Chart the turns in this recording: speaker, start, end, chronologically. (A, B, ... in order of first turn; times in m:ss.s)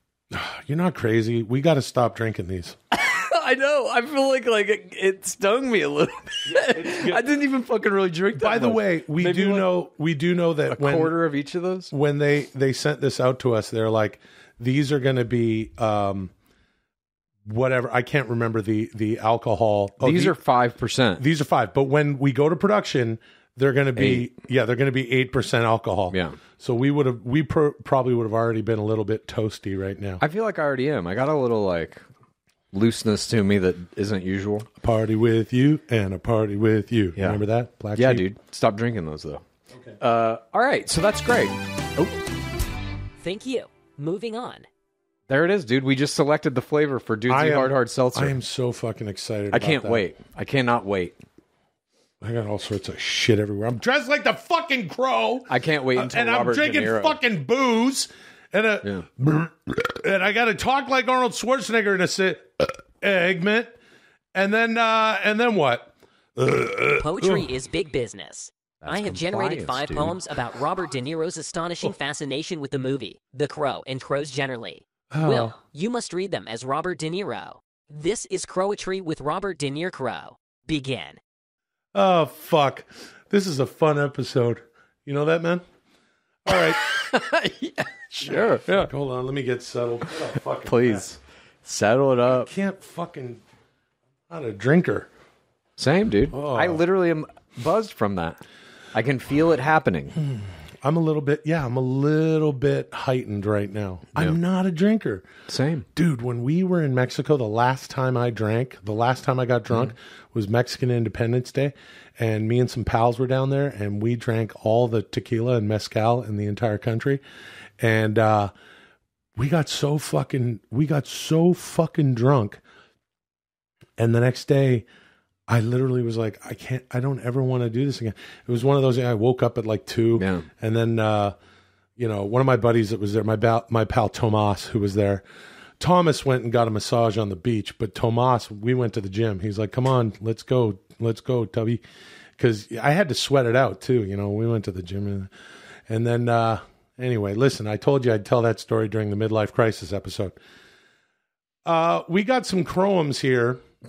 0:00.3-0:02.8 A
0:02.9-0:09.7 B
0:06.5-0:07.2 A
0:08.3-0:11.1 A
0:10.7-0:11.9 B
0:11.9-0:16.3 A
0:17.4-0:20.4 A
0:20.0-0:21.2 B
0:21.2-0:30.2 A
0:24.0-0:24.3 B
0:26.1-0:26.4 B
0:30.2-0:32.0 B
0:32.7-0:34.7 B
0:34.8-0:38.2 A
0:38.0-0:39.4 B
0:40.0-0:42.2 B
0:43.2-0:44.7 C
0:45.3-0:48.4 B
0:47.3-0:50.0 A
0:49.5-0:51.2 B
0:52.2-1:03.7 A
0:55.5-0:57.2 B
1:04.3-1:07.5 A
1:07.0-1:21.2 C
1:08.8-1:10.2 B
1:15.1-1:15.5 A
1:21.9-1:25.6 A
1:26.4-1:26.8 A
1:26.7-1:28.9 B
1:28.2-1:31.0 A
1:30.6-1:32.5 B
1:32.3-1:33.4 A
1:34.3-1:35.1 A
1:35.8-1:38.4 B
1:36.3-1:36.8 A
1:38.9-1:40.2 B
1:40.2-1:45.3 A
1:45.5-1:45.8 B
1:46.0-1:57.2 A
1:57.8-1:58.5 A
1:59.4-2:02.6 A
2:04.0-2:04.8 A
2:05.5-2:11.4 A
2:10.2-2:10.5 B
2:12.0-2:15.2 A
2:15.8-2:21.8 A
2:22.4-2:25.3 A
2:25.9-2:30.4 A
2:31.6-2:33.6 A